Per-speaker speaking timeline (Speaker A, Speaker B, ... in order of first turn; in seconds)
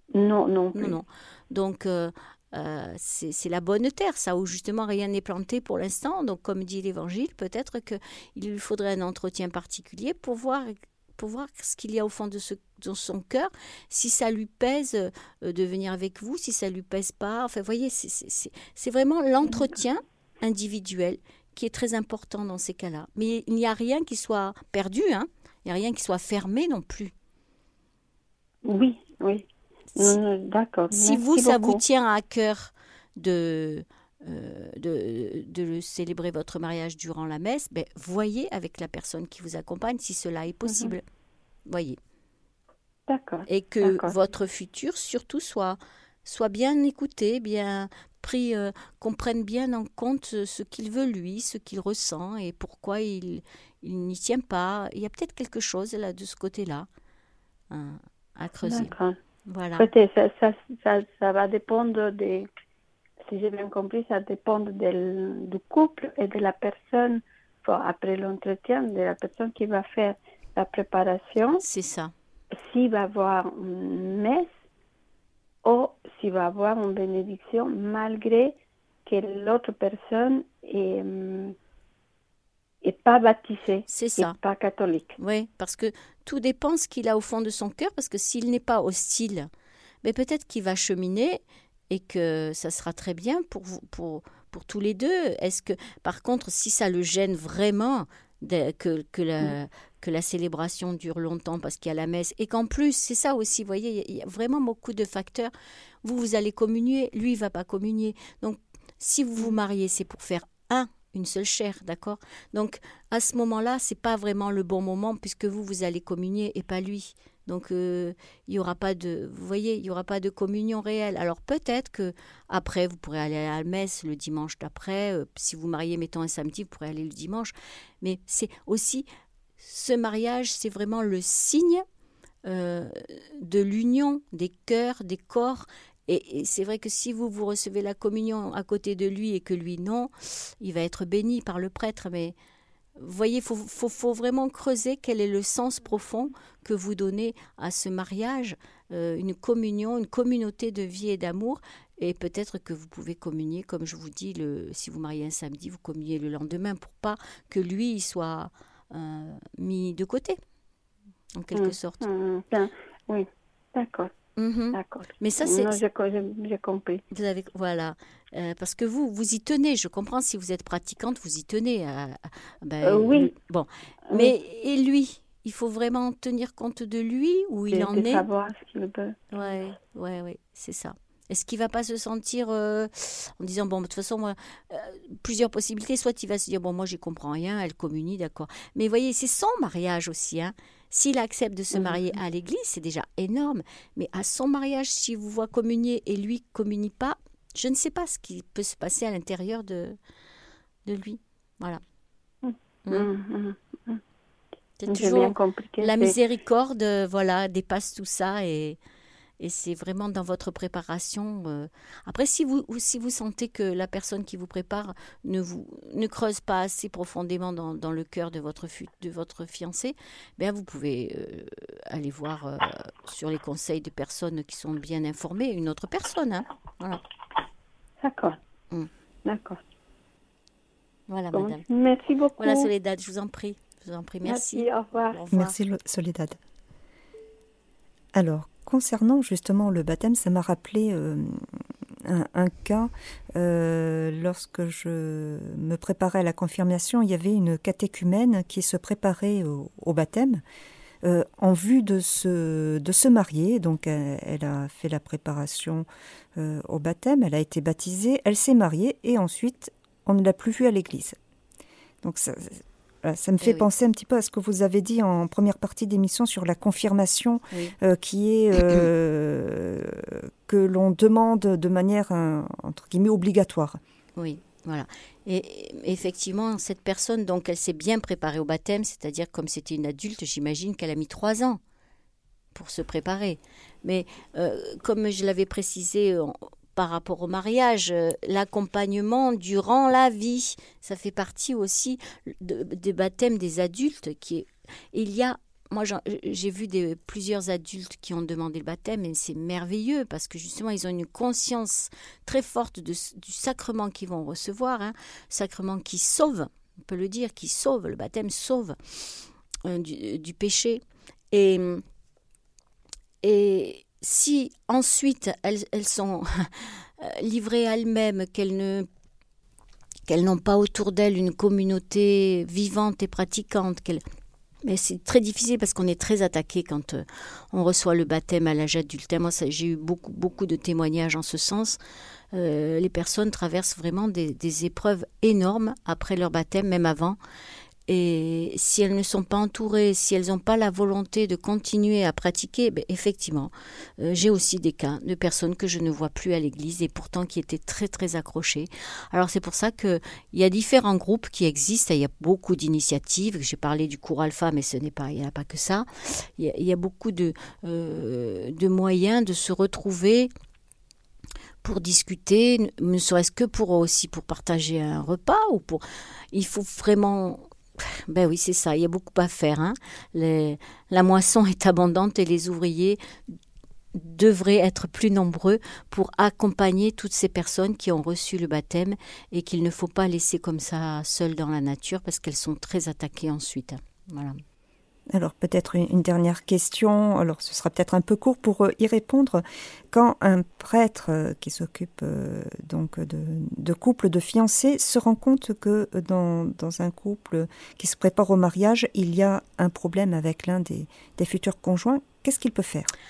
Speaker A: 0.1-1.0, 28.6-31.8, 40.7-40.9, 43.1-44.1, 58.6-59.2, 59.8-62.5, 63.2-71.6, 72.5-74.5, 75.6-81.5, 82.8-85.2, 161.5-164.1, 164.7-167.0, 172.8-173.3, 174.1-174.3, 177.7-179.2, 191.7-192.0, 202.4-204.0, 204.9-206.2, 228.0-228.4, 229.2-229.6, 231.3-232.7, 234.2-235.2
Speaker B: 0.7-27.1, 30.9-41.0, 41.7-42.0, 43.5-56.9, 57.7-58.9, 59.5-59.9, 71.6-72.1, 83.9-84.4, 85.2-89.5, 90.0-105.5, 106.0-129.1, 129.6-131.8, 132.4-142.3, 143.0-160.4, 161.3-162.1, 164.4-165.8, 167.1-178.2, 179.3-200.0, 200.8-201.8, 204.8-208.8, 209.4-227.0, 231.1-231.6, 232.4-235.6, 263.4-263.7, 274.2-281.6, 282.5-309.0, 309.6-310.8, 311.3-311.8, 313.2-318.9, 320.1-324.0, 324.6-331.8, 332.3-337.2, 337.9-360.3, 361.6-373.3, 373.9-384.4
Speaker C: 235.3-236.4, 238.1-241.4, 242.0-250.4, 251.0-261.2, 262.0-273.8, 385.1-402.9